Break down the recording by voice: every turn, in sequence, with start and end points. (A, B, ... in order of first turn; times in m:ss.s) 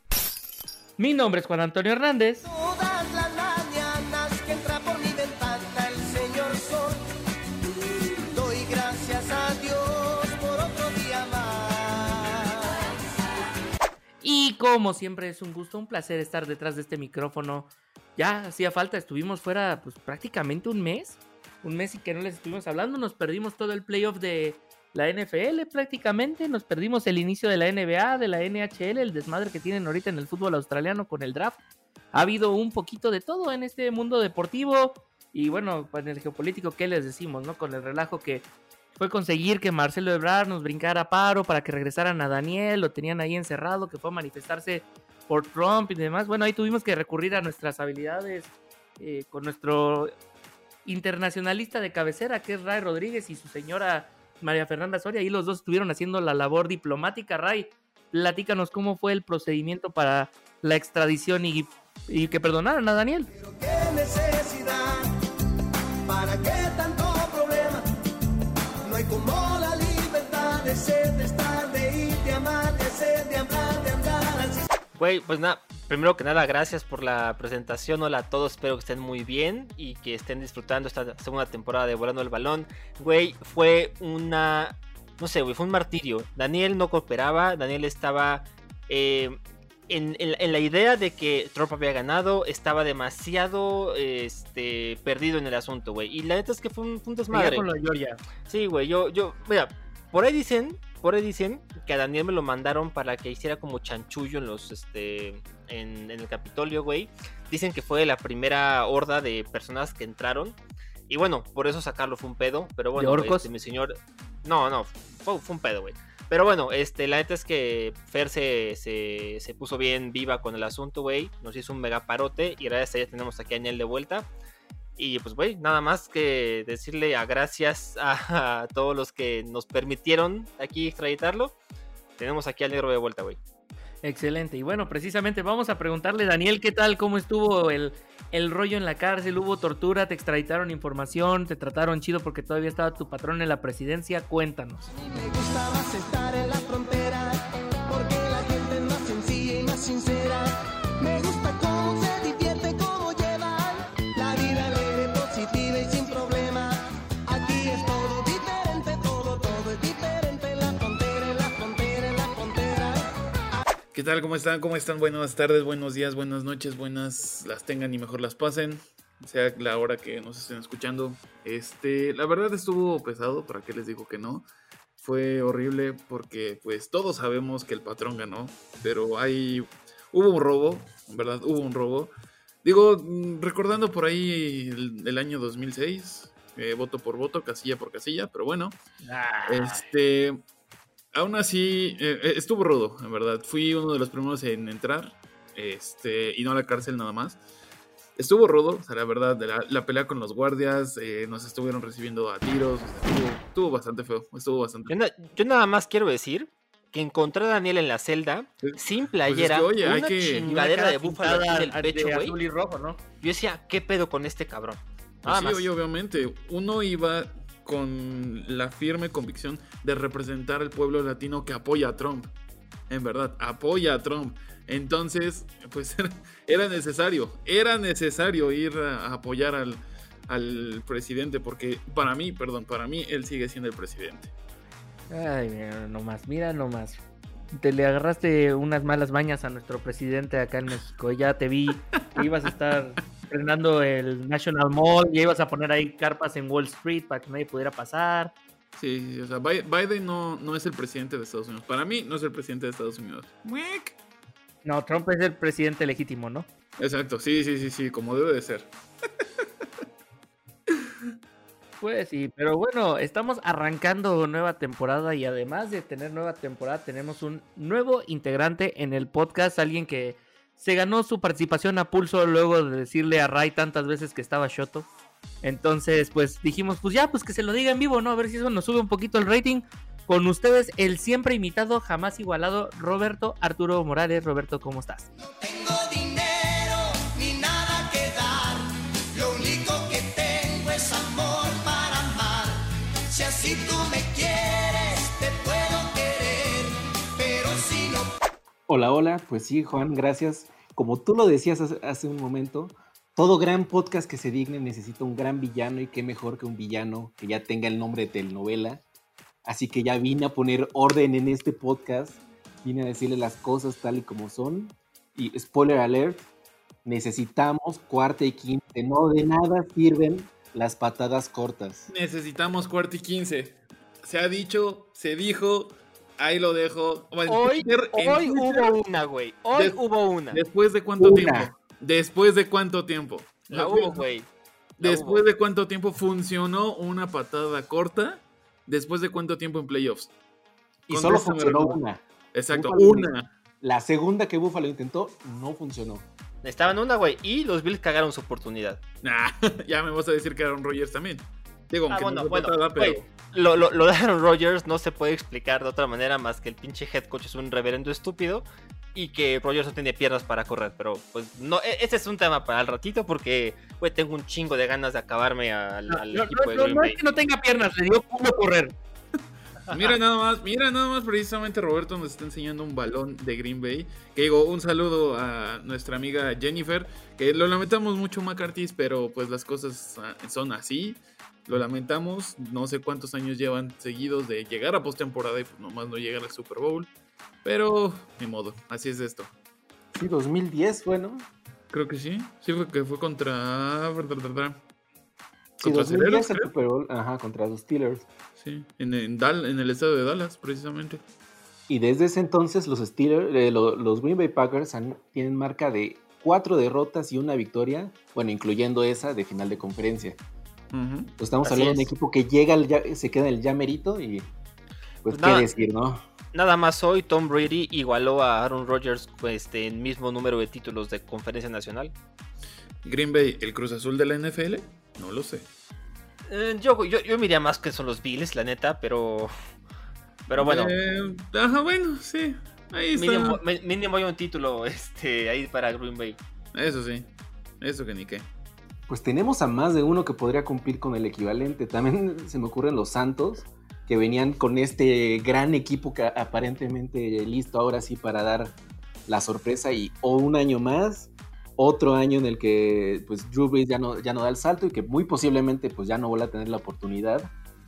0:01.0-0:02.4 A
0:02.4-0:07.0 B
0:08.3-0:12.9 B
0:14.2-0:31.6 A
0:32.1-0:38.4 A
0:39.0-0:50.1 A
0:50.8-1:03.3 A
1:03.3-1:05.1 B
1:06.0-1:07.8 B
1:08.8-1:14.7 B
1:15.0-1:37.7 C
1:37.3-1:38.2 A
1:38.5-1:50.6 C
1:51.1-2:04.3 C
1:53.0-1:53.5 A
2:05.0-2:11.6 C
2:12.2-2:13.4 C
2:14.0-2:24.9 A
2:25.0-2:43.6 B
2:43.9-2:54.4 D
2:55.0-3:02.1 D
3:02.6-3:08.8 D
3:09.1-3:09.8 C
3:09.4-3:10.4 D
3:11.1-3:17.4 D
3:18.2-3:24.9 D
3:24.9-3:32.4 C
3:28.6-3:30.5 D
3:30.4-3:33.0 A
3:33.2-3:35.6 C
3:35.2-3:42.3 D
3:42.9-3:54.3 D
3:55.1-3:57.0 A
3:57.5-4:08.3 A
4:02.0-4:02.2 D
4:08.8-4:14.0 D
4:14.6-4:16.5 A
4:16.8-4:18.7 D
4:21.8-4:34.9 A
4:35.4-4:45.1 A
4:45.2-4:58.1 B
4:58.7-5:08.8 E
5:09.4-5:16.3 E
5:16.8-5:21.9 E
5:21.9-5:28.7 D
5:27.3-5:30.4 C
5:29.5-5:29.8 D
5:30.3-5:34.0 D
5:31.0-5:31.5 E
5:33.5-5:34.3 C
5:34.8-5:40.1 D
5:34.8-5:35.2 C
5:40.9-5:41.8 D
5:40.9-5:43.1 E
5:42.3-5:43.2 D
5:43.6-5:46.1 E
5:46.4-5:48.8 C
5:49.0-5:53.0 D
5:51.9-6:07.0 C
6:05.9-6:08.7 A
6:09.7-6:09.9 C
6:09.7-6:26.9 D
6:27.4-6:29.3 D
6:29.9-6:31.3 E
6:31.7-6:34.6 D
6:35.6-6:36.5 D
6:35.6-6:38.1 E
6:38.4-6:41.0 D
6:41.7-6:50.2 E
6:50.7-6:51.1 D
6:51.2-6:54.3 E
6:51.4-6:51.9 C
6:55.0-6:56.0 E
6:55.1-6:55.5 C
6:56.3-7:01.9 C
7:02.8-7:05.4 D
7:06.3-7:09.3 C
7:10.3-7:10.7 C
7:10.3-7:13.4 D
7:13.0-7:16.2 C
7:16.5-7:17.1 D
7:17.6-7:18.2 D
7:18.9-7:28.5 E
7:29.1-7:37.3 E